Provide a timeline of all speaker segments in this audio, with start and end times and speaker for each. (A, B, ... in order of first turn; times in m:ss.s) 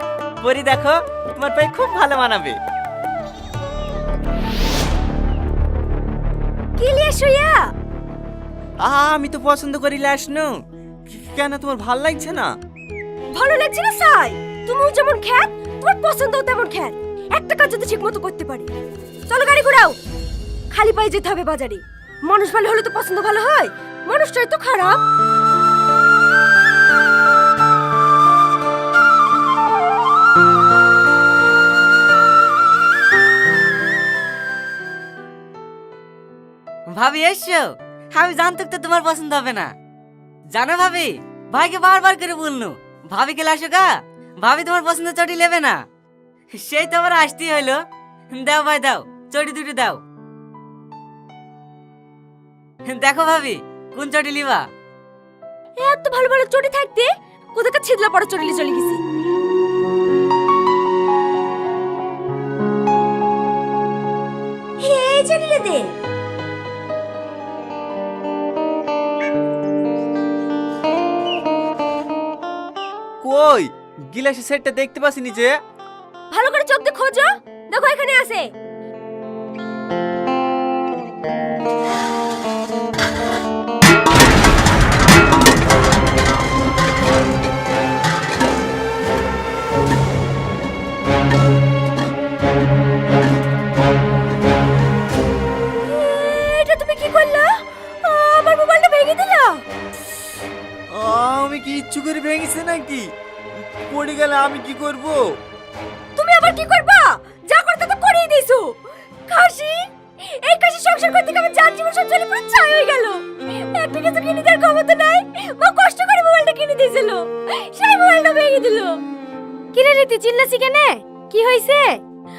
0:00.4-0:02.6 A
0:06.8-0:07.6 B
0:08.8-0:10.6 A
0:11.1-0:12.5 A
0:13.3-0:18.7 B
0:19.3-0:19.9 B
0:20.7-0:25.0 B
0:36.9-0:39.7 C
0:40.5-0:45.8 C
0:46.6-0:50.0 C
0:52.8-0:54.7 C
0:55.8-0:59.0 B
1:04.8-1:05.9 B
1:13.2-1:15.6 A
1:16.3-1:18.5 B
1:35.8-1:37.5 B
1:38.0-1:39.6 B
1:40.9-1:43.1 A
1:43.6-1:45.2 A
1:46.2-1:48.7 B
1:49.3-1:59.0 B
1:59.7-2:02.0 B